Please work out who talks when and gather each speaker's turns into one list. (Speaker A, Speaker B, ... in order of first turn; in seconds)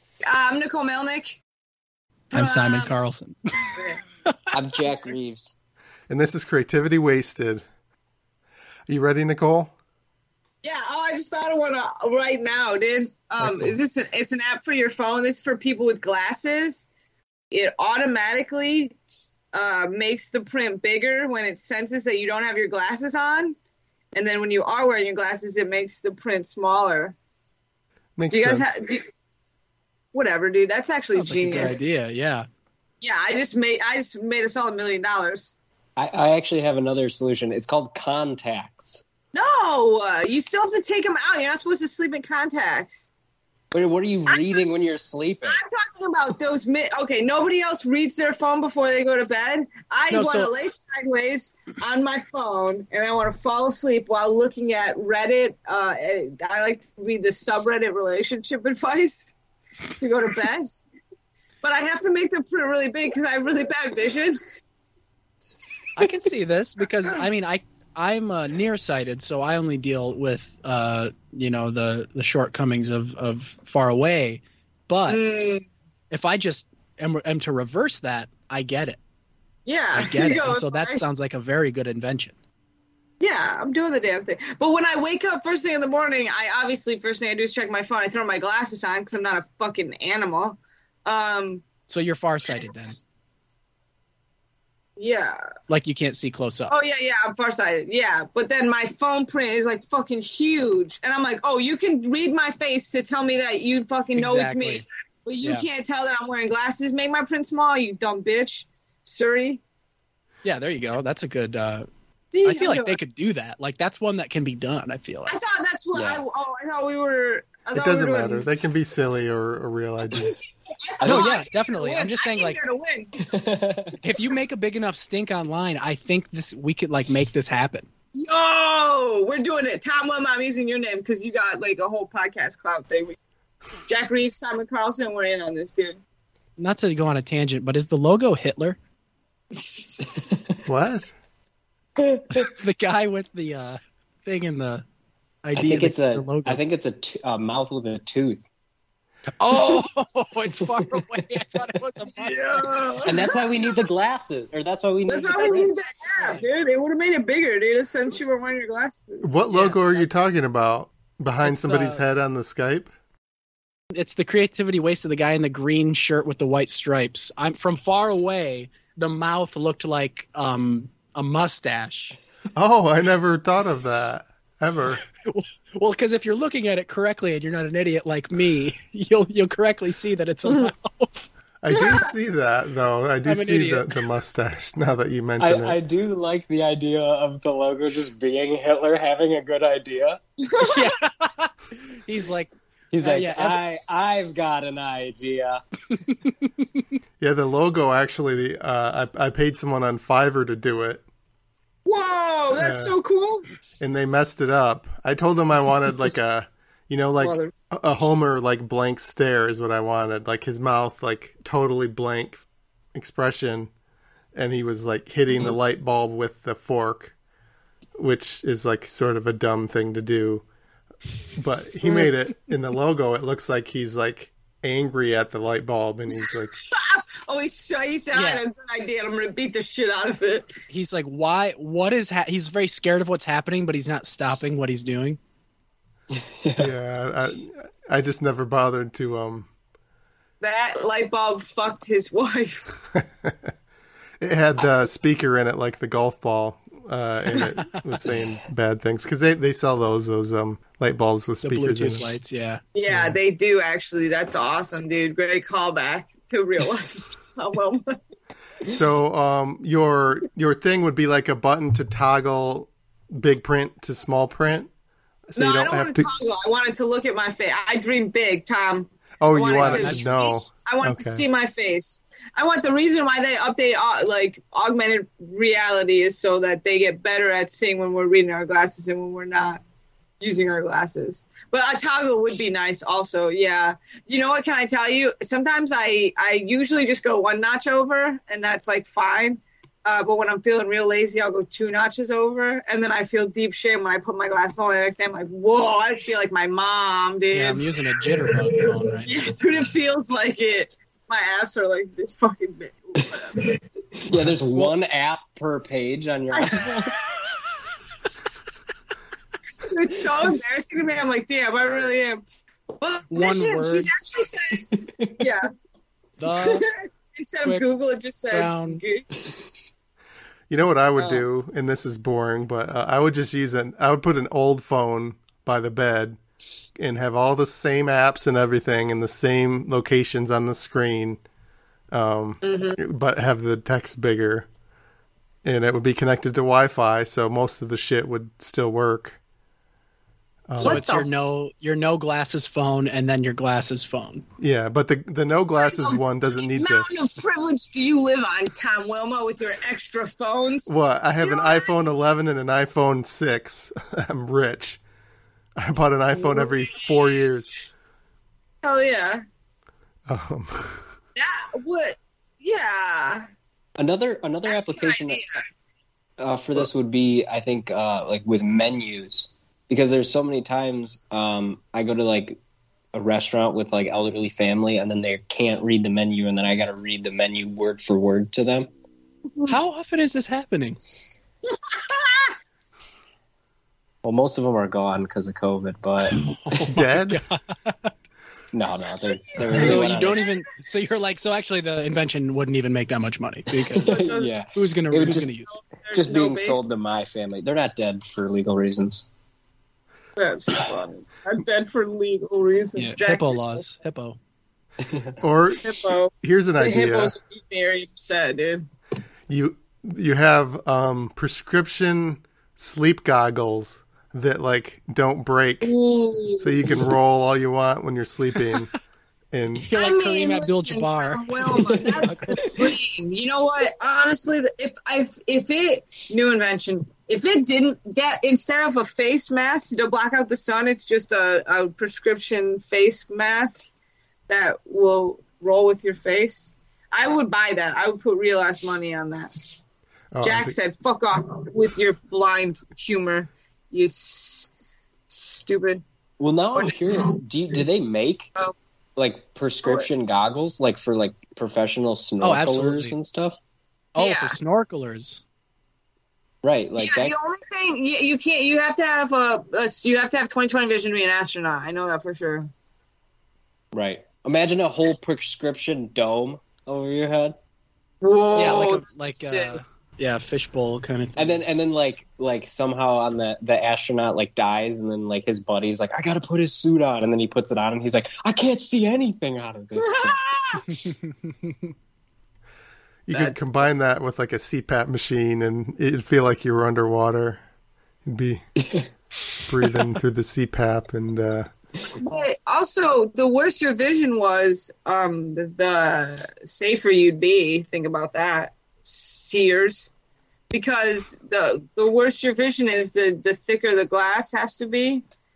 Speaker A: 0.3-1.4, 2.3-3.0, 3.7-4.0, 10.6-16.9, 17.5-18.9, 19.5-23.6, 24.1-27.1, 28.3-29.2, 30.1-31.8, 33.0-35.5, 39.3-43.1, 44.3-44.7, 45.5-59.3, 60.0-60.8, 61.6-64.6, 75.1-75.7, 79.7-81.1, 83.2-91.6, 95.0-95.4, 96.7-109.6, 112.3-113.0, 115.3-118.5, 120.1-123.2, 128.1-133.2, 133.9-136.0, 139.6-139.9, 152.1-153.8, 155.1-159.3, 180.5-180.7, 181.7-182.1, 190.5-190.8, 201.8-203.4, 207.2-207.5, 226.1-230.5, 240.4-242.7, 252.7-258.0, 265.4-279.6, 280.2-298.3, 299.0-303.6, 306.3-307.0, 309.6-312.2, 312.7-315.4, 316.3-319.1, 321.0-321.2, 332.4-332.8, 340.6-341.1, 345.5-351.7, 356.1-357.3, 358.6-359.2, 361.1-363.2, 364.5-365.4, 381.4-382.4, 389.4-390.3, 393.9-394.4, 395.5-396.6, 400.2-403.6, 405.6-408.6, 415.6-416.6, 419.7-433.7, 434.3-439.6, 440.2-444.5, 445.1-445.8, 446.6-447.2, 454.0-454.4, 456.8-462.5, 468.0-469.6, 479.9-480.6, 483.1-483.5, 492.0-499.9, 500.5-505.0
Speaker B: 2.3-4.3, 13.4-13.8, 31.1-32.5, 50.1-50.5, 66.0-75.2, 76.1-79.0, 79.9-82.3, 91.9-93.0, 95.7-96.7, 104.1-104.8, 105.4-105.7, 110.4-111.9, 112.4-115.4, 121.0-122.6, 124.0-127.9, 136.6-138.8, 142.3-144.8, 145.4-146.6, 149.3-152.9, 155.3-156.4, 159.5-160.2, 161.4-162.0, 163.9-172.2, 175.2-181.3, 183.2-183.9, 190.6-193.6, 228.1-228.4, 230.7-235.2, 251.4-252.6, 269.6-270.1, 297.3-299.4, 304.1-304.7, 313.1-313.9, 316.2-316.6, 318.3-318.8, 340.6-344.2, 379.4-380.8, 386.1-387.9, 389.5-395.5, 402.7-404.2, 419.6-422.5, 452.2-452.9, 453.9-455.2, 468.3-471.4, 480.7-481.7
Speaker C: 4.5-5.5, 36.0-39.0, 43.7-45.6, 115.9-116.2, 121.0-121.4, 123.2-124.0, 142.0-142.5, 145.6-148.4, 153.0-155.7, 185.4-190.2, 192.9-195.6, 236.1-236.7, 248.0-248.4, 304.0-306.9, 363.8-365.2, 366.2-372.4, 372.9-378.7, 384.0-386.7, 388.5-390.2, 393.7-395.3, 395.9-399.1, 404.8-405.1, 421.6-422.4, 446.2-448.3, 449.0-453.4, 456.4-457.1, 463.7-467.4, 471.1-480.2
Speaker D: 6.1-7.6, 8.9-9.7, 28.2-28.8, 117.7-120.3, 140.6-141.1, 159.2-162.9, 172.5-175.0, 181.6-185.8, 197.2-201.0, 202.5-202.9, 203.8-212.4, 212.9-213.7, 214.3-217.1, 218.0-220.4, 221.3-226.5, 236.6-239.5, 243.0-243.5, 244.2-252.2, 252.9-253.1, 258.7-264.7, 265.3-266.1, 269.2-271.2, 320.5-326.2, 326.8-331.2, 331.9-334.5, 335.4-339.2, 340.5-341.1, 344.4-347.0, 350.7-354.8, 355.6-357.7, 360.1-360.8, 386.7-387.2, 405.2-407.1, 409.3-415.7, 416.4-418.7, 419.3-419.7, 440.1-440.6, 483.1-487.4, 488.0-488.5, 489.4-491.5